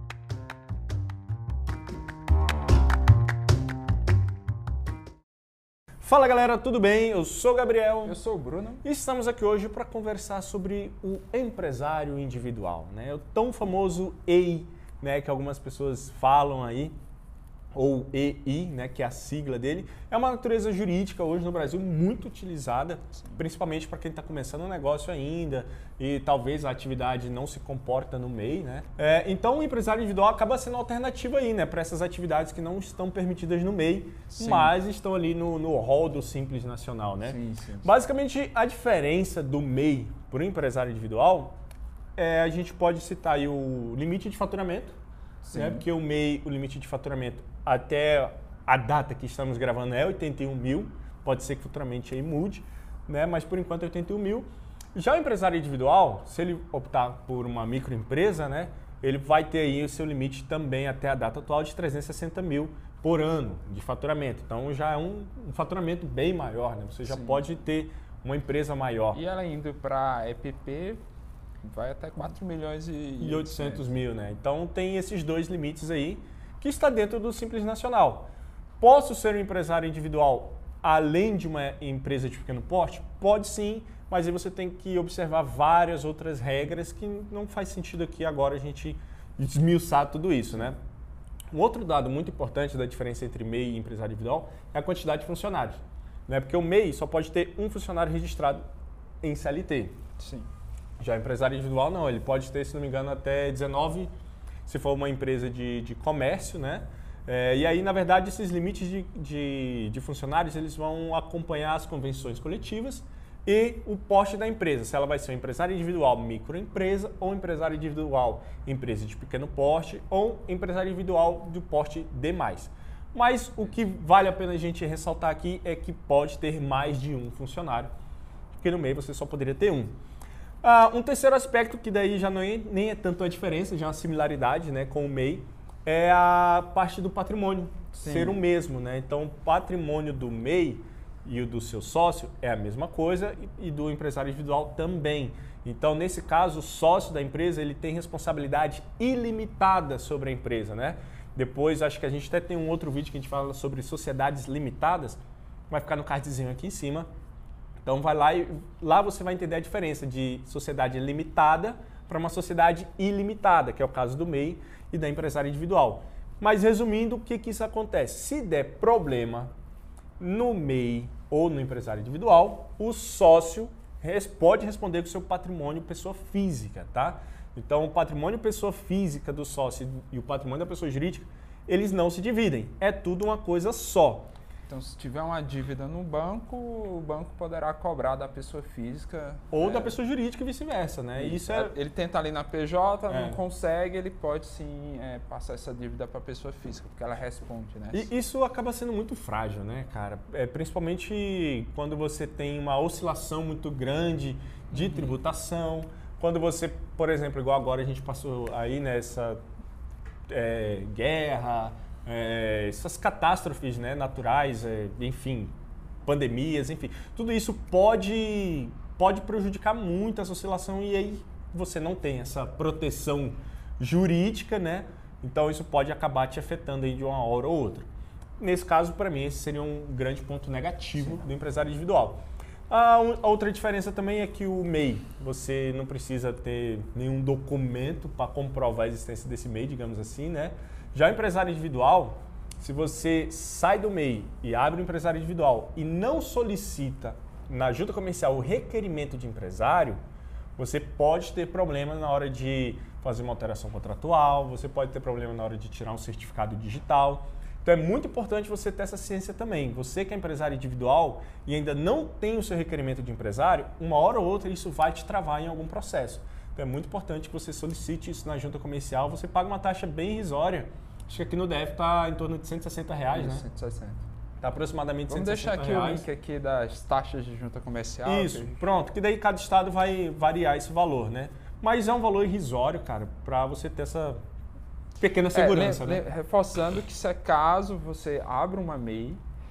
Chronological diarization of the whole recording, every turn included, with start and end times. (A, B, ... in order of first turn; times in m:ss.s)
0:06.0-0:08.2 A
0:08.0-0:08.8 B
0:08.8-0:17.0 A
0:17.7-0:41.6 A
0:34.3-0:34.7 B
0:37.2-0:37.9 B
0:42.2-0:45.0 A
0:45.4-0:45.8 B
0:45.5-1:09.2 A
1:07.1-1:07.5 B
1:09.1-1:11.0 B
1:11.6-1:13.9 B
1:13.2-1:30.8 A
1:31.5-1:38.6 A
1:39.2-1:40.0 A
1:40.2-1:40.5 B
1:41.0-1:44.1 A
1:44.7-2:07.9 A
2:08.6-2:10.0 A
2:10.6-2:37.1 A
2:17.9-2:18.4 B
2:37.8-2:49.5 A
2:50.2-3:04.3 A
3:04.7-3:10.0 B
3:09.5-3:11.8 A
3:11.2-3:18.1 B
3:13.1-3:13.4 A
3:17.9-3:29.4 A
3:24.7-3:25.1 B
3:30.3-3:35.5 A
3:36.1-3:47.9 A
3:48.4-4:10.0 A
4:10.6-4:33.4 A
4:33.1-4:34.0 B
4:34.4-4:36.1 A
4:35.1-4:38.6 B
4:38.0-4:44.2 A
4:45.0-4:46.0 A
4:45.3-4:49.2 B